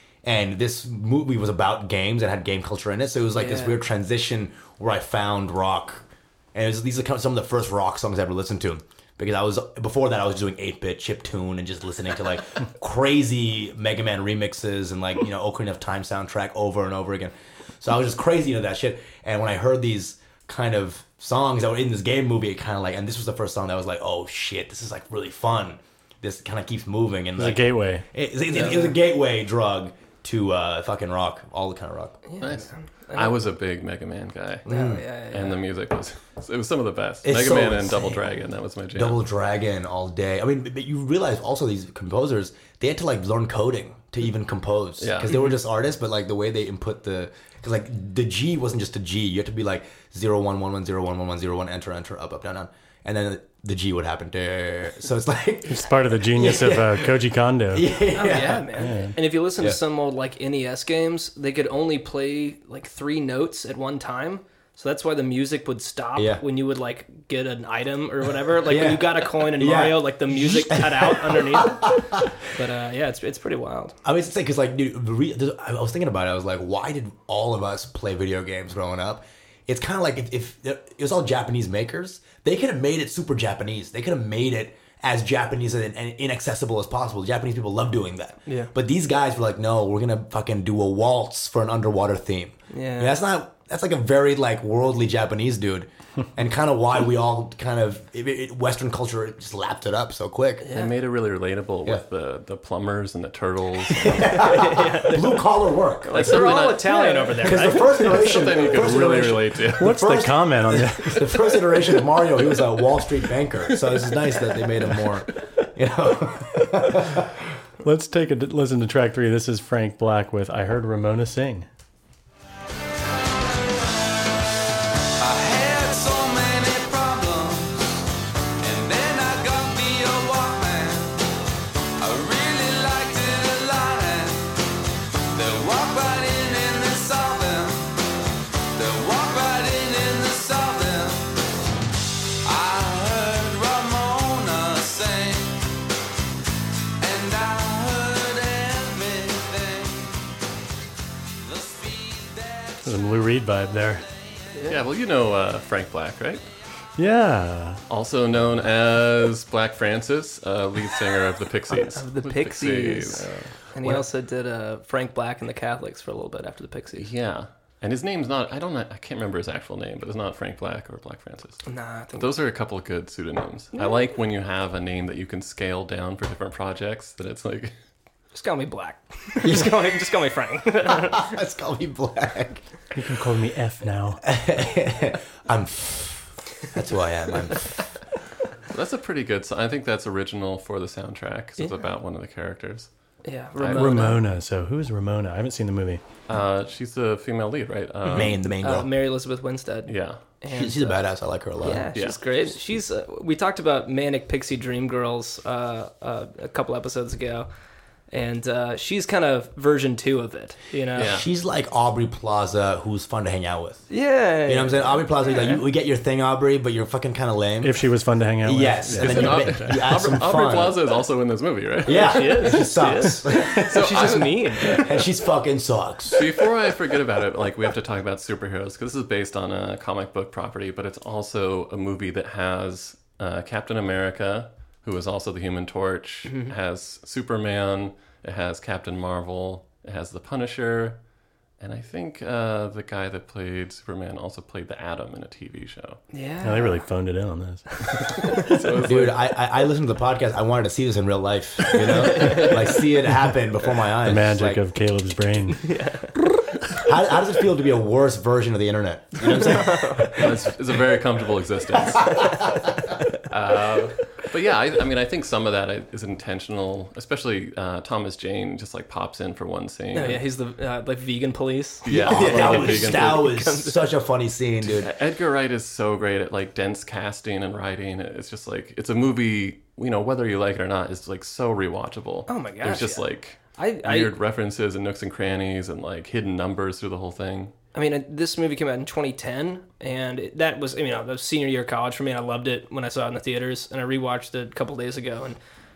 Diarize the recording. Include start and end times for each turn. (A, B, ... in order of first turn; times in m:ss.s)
0:00.2-0:32.2 A
0:03.3-0:03.8 B
0:27.4-0:28.0 C
0:32.3-0:33.4 B
0:32.4-0:34.6 D
0:34.6-0:35.0 A
0:34.6-0:35.6 B
0:35.3-0:39.2 D
0:37.2-0:38.2 A
0:38.9-0:57.2 A
0:45.0-0:45.5 D
0:55.7-0:57.9 C
0:57.7-0:58.8 A
0:58.1-1:13.9 B
0:58.8-0:59.2 C
1:06.1-1:06.4 A
1:08.6-1:12.3 A
1:14.0-1:40.6 A
1:32.7-1:33.2 B
1:40.6-1:40.9 B
1:40.7-1:44.4 D
1:44.0-1:46.6 A
1:44.1-1:45.4 B
1:46.0-1:48.4 B
1:46.1-1:50.0 D
1:47.4-1:57.3 A
1:49.8-1:51.3 C
1:57.8-2:01.7 C
2:05.2-2:08.0 E
2:08.6-2:11.2 E
2:12.0-2:14.5 E
2:15.3-2:17.9 E
2:18.7-2:21.3 E
2:22.4-2:25.6 E
2:27.0-2:30.3 E
2:31.4-2:33.0 E
2:32.8-2:34.0 C
2:34.5-2:34.8 B
2:34.7-2:36.5 D
2:37.0-2:37.8 C
2:37.9-2:44.0 D
2:41.7-2:47.0 B
2:47.0-2:57.7 D
2:51.6-2:52.3 B
2:53.7-2:54.1 B
2:58.3-3:01.3 B
2:59.4-2:59.8 A
3:00.8-3:02.6 A
3:02.9-3:04.2 C
3:04.2-3:07.8 A
3:08.7-3:12.9 D
3:13.2-3:14.2 B
3:13.6-3:14.1 D
3:13.7-3:16.0 C
3:16.3-3:18.4 D
3:18.0-3:21.0 B
3:18.1-3:18.9 A
3:19.9-3:20.2 D
3:20.5-3:21.9 A
3:21.6-3:27.5 B
3:21.9-3:22.2 D
3:28.1-3:31.1 B
3:31.0-3:31.2 D
3:31.0-3:33.9 A
3:33.9-3:35.6 B
3:34.4-3:37.9 A
3:37.6-3:39.9 C
3:38.4-3:40.8 A
3:38.9-3:42.6 D
3:41.8-3:43.8 A
3:42.0-3:44.9 B
3:43.6-3:44.8 D
3:44.7-3:46.3 A
3:46.1-4:01.0 D
3:56.3-3:56.5 B
4:01.6-4:06.0 D
4:06.1-4:06.8 B
4:06.4-4:07.8 C
4:08.3-4:09.2 D
4:08.8-4:14.6 A
4:12.1-4:12.5 B
4:14.0-4:15.7 C
4:15.5-4:16.2 B
4:16.8-4:20.4 A
4:19.3-4:20.1 B
4:20.2-4:22.2 D
4:22.0-4:22.5 B
4:23.3-4:30.2 D
4:29.9-4:33.8 B
4:31.8-4:33.3 D
4:31.9-4:34.9 A
4:34.6-4:47.5 D
4:42.3-4:44.1 B
4:47.7-4:55.4 B